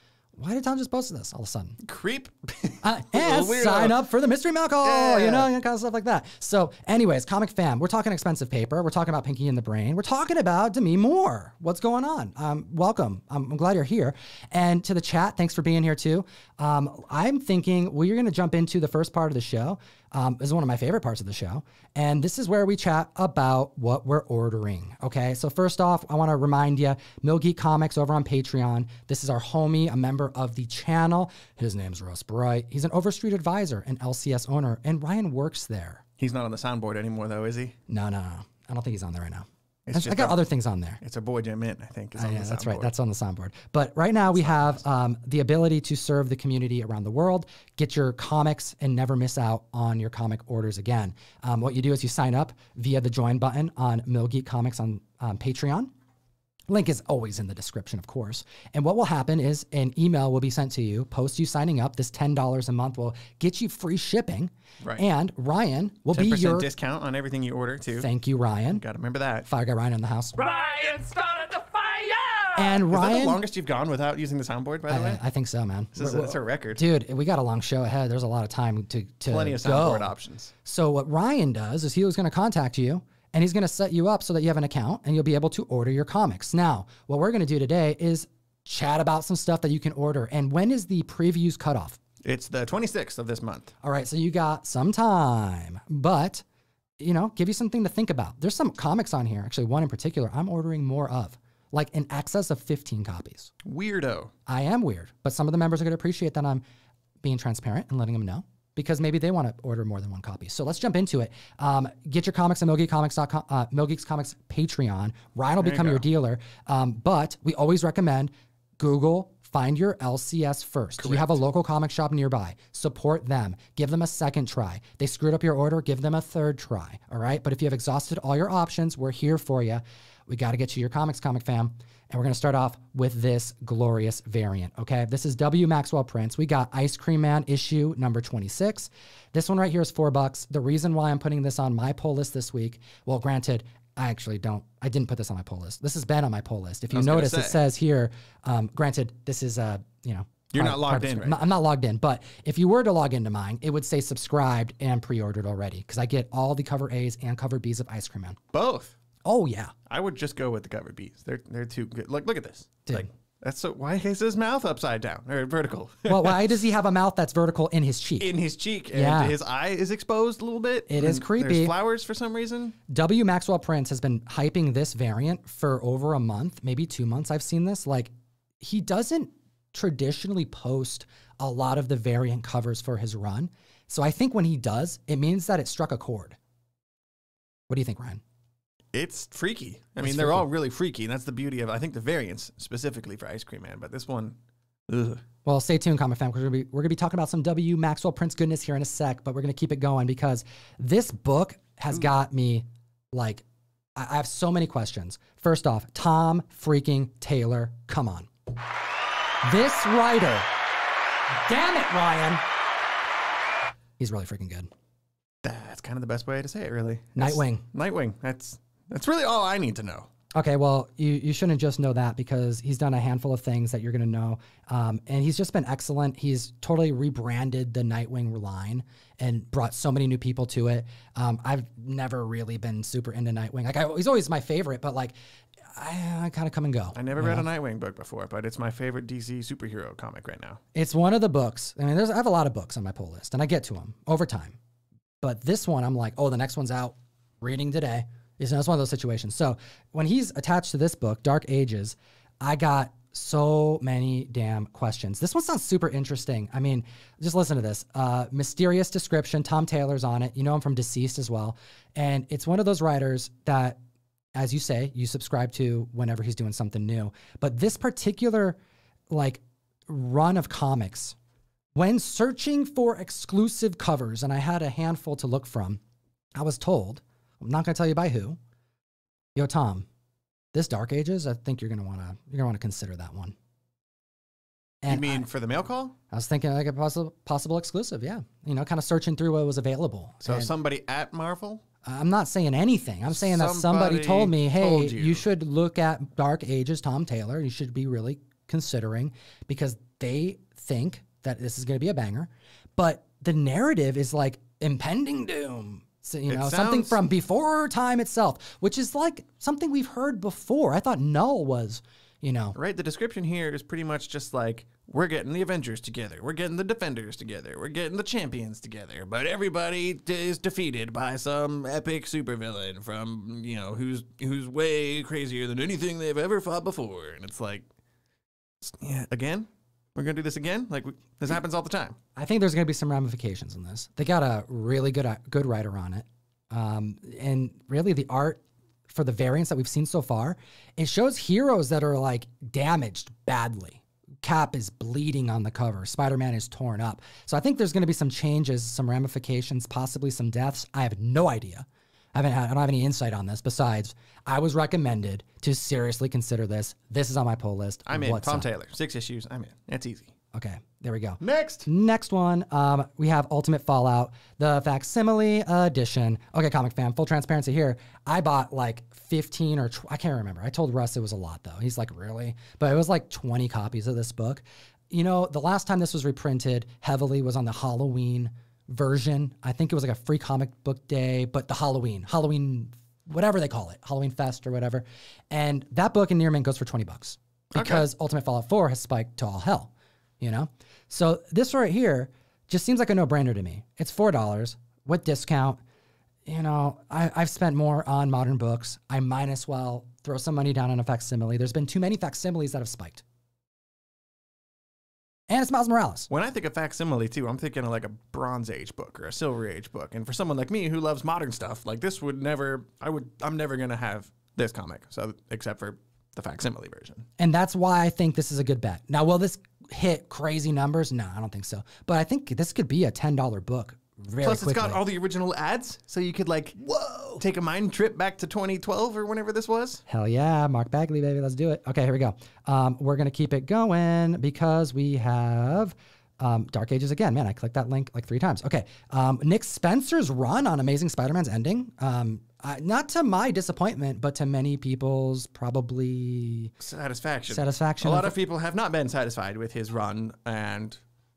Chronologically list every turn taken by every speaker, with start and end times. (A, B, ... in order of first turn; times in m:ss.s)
0:00.4-0:01.8 A
0:01.8-0:04.0 B
0:02.8-0:36.0 A
0:04.8-0:05.5 B
0:36.2-0:37.7 B
0:37.9-0:41.0 A
0:39.8-0:40.4 B
0:41.0-0:42.9 B
0:42.2-0:55.9 A
0:44.3-0:44.8 B
0:56.7-1:06.7 A
1:04.8-1:05.0 B
1:06.1-1:08.1 B
1:08.0-1:08.8 A
1:08.7-1:09.4 B
1:09.4-1:10.4 A
1:10.4-1:12.8 C
1:12.5-1:13.4 A
1:12.9-1:15.2 B
1:14.9-1:32.0 A
1:15.9-1:16.8 B
1:19.3-1:20.5 B
1:32.2-1:33.7 B
1:33.8-1:36.4 A
1:37.0-1:43.5 A
1:43.6-1:44.3 B
1:44.5-1:46.6 A
1:47.2-2:38.4 A
1:55.6-1:56.0 B
2:01.0-2:01.4 B
2:26.9-2:27.6 B
2:30.5-2:31.4 B
2:38.5-2:38.9 B
2:39.2-2:39.7 A
2:39.9-2:46.4 B
2:46.1-2:48.3 A
2:48.2-2:52.8 B
2:48.9-2:49.4 A
2:50.9-2:51.7 A
2:52.9-3:06.4 A
3:07.7-3:08.2 A
3:08.9-3:14.4 B
3:10.0-3:10.4 A
3:14.9-3:15.2 B
3:15.4-3:23.4 A
3:24.0-3:28.3 A
3:29.4-3:30.5 A
3:31.4-3:32.4 A
3:34.0-3:34.7 A
3:35.4-3:40.1 B
3:37.1-3:37.6 A
3:40.3-3:55.1 A
3:55.7-3:57.4 A
3:56.9-4:00.6 B
4:00.7-4:04.6 A
4:05.2-4:23.8 A
4:24.3-4:28.6 A
4:29.1-4:31.2 A
4:31.7-4:35.8 A
4:36.4-4:38.4 A
4:39.4-4:39.9 A
4:40.5-4:43.3 A
4:44.8-4:45.2 A
4:44.9-4:45.9 B
4:46.1-4:50.5 A
4:50.2-4:51.6 B
4:51.8-5:12.6 A
4:53.1-4:55.2 B
5:06.3-5:07.1 B
5:12.5-5:27.7 B
5:28.6-5:32.0 B
5:32.2-5:58.5 A
5:57.9-6:00.1 B
6:00.3-6:35.6 A
6:01.2-6:01.7 B
6:27.5-6:27.9 B
6:36.2-6:43.0 A
6:45.3-6:46.1 A
6:46.1-6:57.0 B
6:57.2-7:04.8 A
7:04.2-7:06.6 B
7:06.6-7:07.2 A
7:07.2-7:09.8 B
7:09.9-7:26.5 A
7:26.6-7:30.8 B
7:27.3-7:28.2 A